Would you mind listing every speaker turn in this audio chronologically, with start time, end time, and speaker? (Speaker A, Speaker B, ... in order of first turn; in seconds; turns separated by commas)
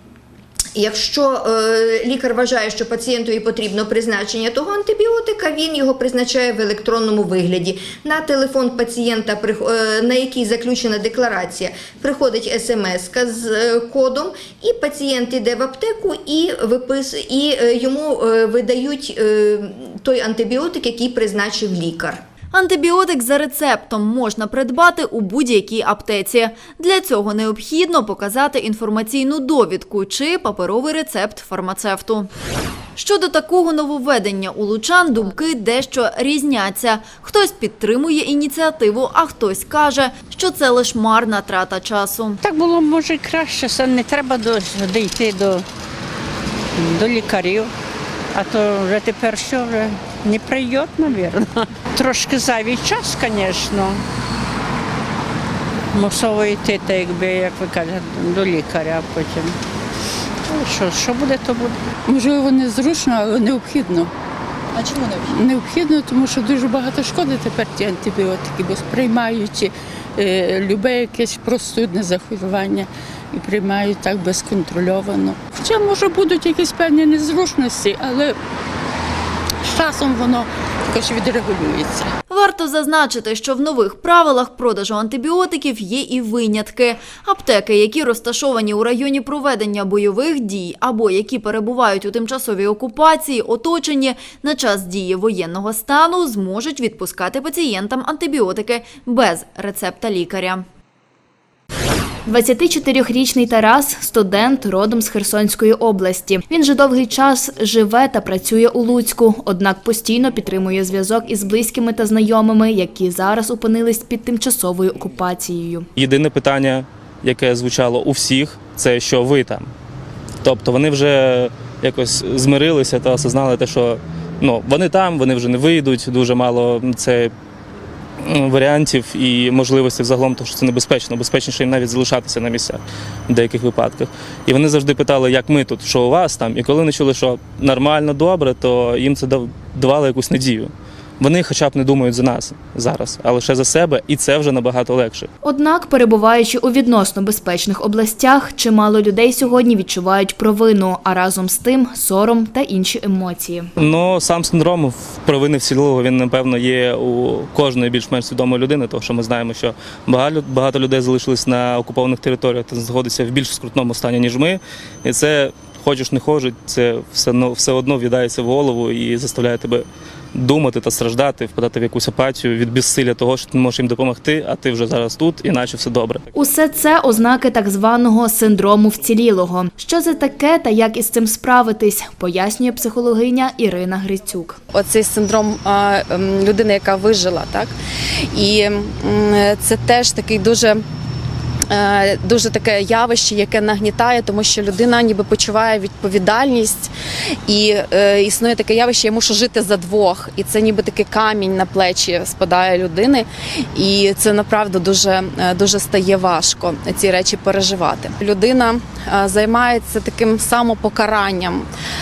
Speaker A: 0.7-22.2, Speaker B: 22.5-32.3, Speaker B: 33.0-42.4, Speaker C: 42.4-45.6, Speaker C: 46.8-47.7, Speaker C: 48.3-54.0, Speaker C: 55.9-59.5, Speaker C: 60.5-61.8, Speaker D: 62.0-64.1, Speaker D: 64.7-78.4, Speaker D: 79.6-82.1, Speaker B: 82.3-100.7, Speaker E: 102.2-115.9, Speaker F: 116.0-119.7, Speaker F: 120.4-127.3, Speaker F: 128.2-145.3, Speaker E: 145.4-153.7, Speaker F: 153.8-176.3, Speaker E: 176.3-184.6, Speaker G: 184.7-187.7, Speaker G: 188.3-190.8, Speaker G: 191.7-196.9, Speaker G: 197.4-211.7